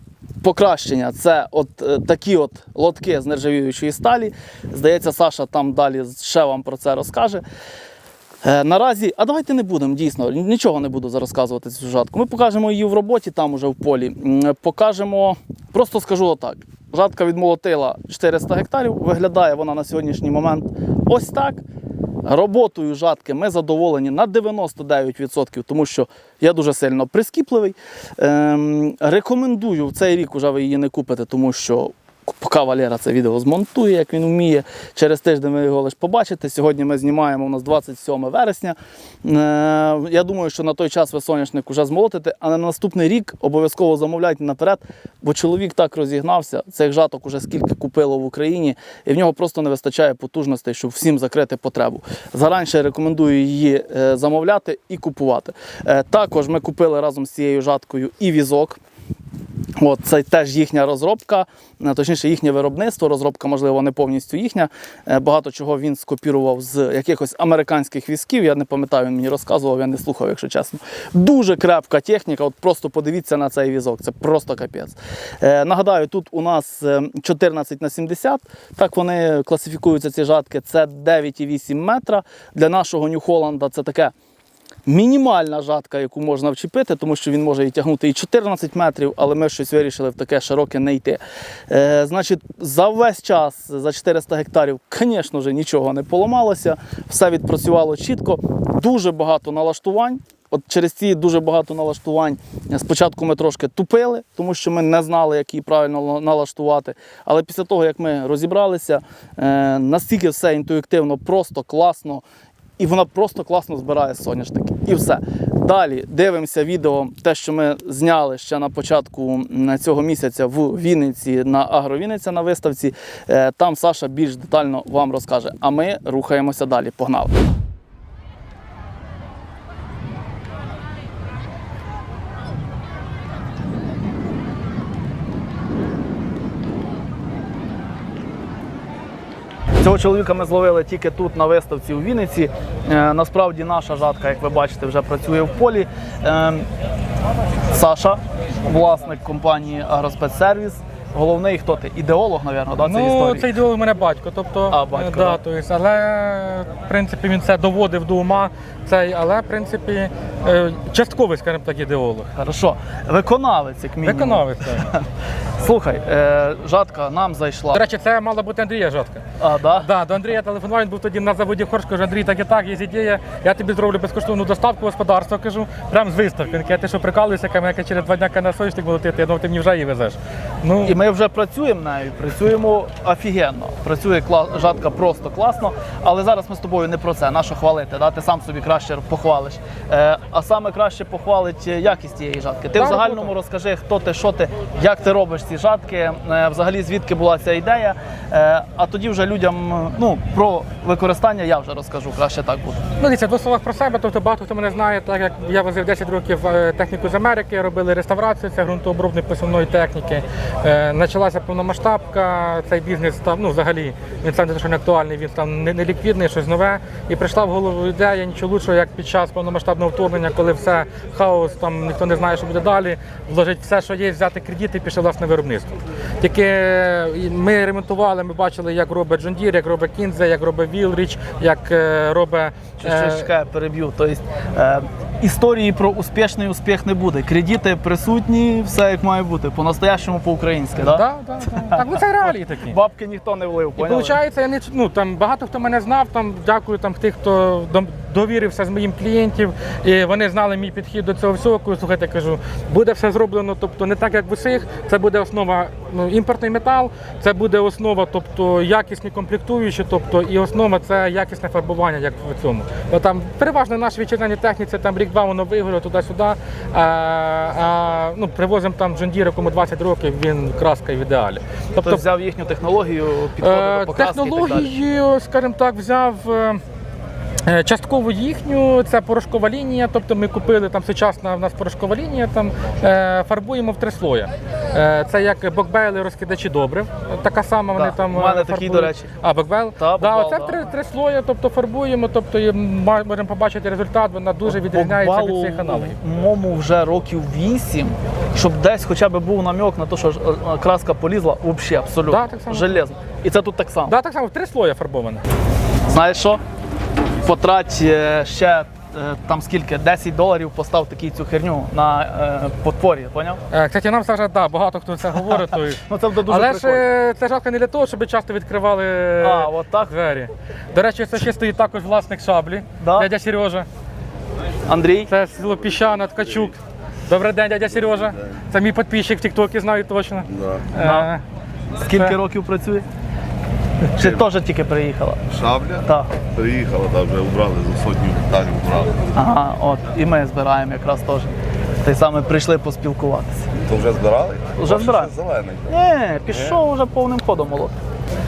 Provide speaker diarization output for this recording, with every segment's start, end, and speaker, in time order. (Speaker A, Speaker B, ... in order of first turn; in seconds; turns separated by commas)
Speaker A: 0.4-7.4, Speaker A: 8.4-21.6, Speaker A: 22.2-58.8, Speaker A: 59.8-84.1, Speaker A: 84.8-112.2, Speaker A: 112.8-127.4, Speaker A: 139.8-146.7, Speaker A: 147.7-153.5, Speaker B: 152.8-162.3, Speaker A: 154.7-155.4, Speaker A: 162.3-165.1, Speaker B: 164.0-164.9, Speaker A: 165.6-167.8, Speaker B: 167.7-169.2, Speaker A: 169.4-169.9, Speaker B: 169.8-181.0, Speaker A: 180.8-202.8, Speaker B: 192.8-193.3, Speaker B: 203.0-233.3, Speaker A: 232.8-241.0, Speaker B: 240.8-242.8, Speaker A: 241.6-244.2, Speaker B: 243.8-272.0, Speaker A: 271.8-274.7, Speaker B: 273.4-276.6, Speaker B: 277.4-296.0, Speaker A: 287.7-289.1, Speaker A: 289.8-290.7, Speaker A: 294.5-303.9, Speaker B: 302.1-302.8, Speaker B: 303.9-305.2, Speaker A: 305.9-306.4, Speaker A: 307.2-313.4, Speaker B: 313.5-323.7, Speaker A: 315.8-316.8, Speaker A: 319.2-319.9, Speaker A: 322.8-323.1, Speaker A: 324.7-325.1, Speaker B: 325.1-331.2, Speaker C: 330.3-330.6, Speaker A: 330.8-331.1, Speaker A: 331.8-332.8, Speaker A: 333.9-335.2, Speaker C: 335.3-339.0, Speaker A: 335.8-336.1, Speaker A: 339.1-341.3, Speaker A: 341.8-343.5, Speaker C: 343.6-345.7, Speaker A: 344.6-345.1, Speaker A: 345.7-347.7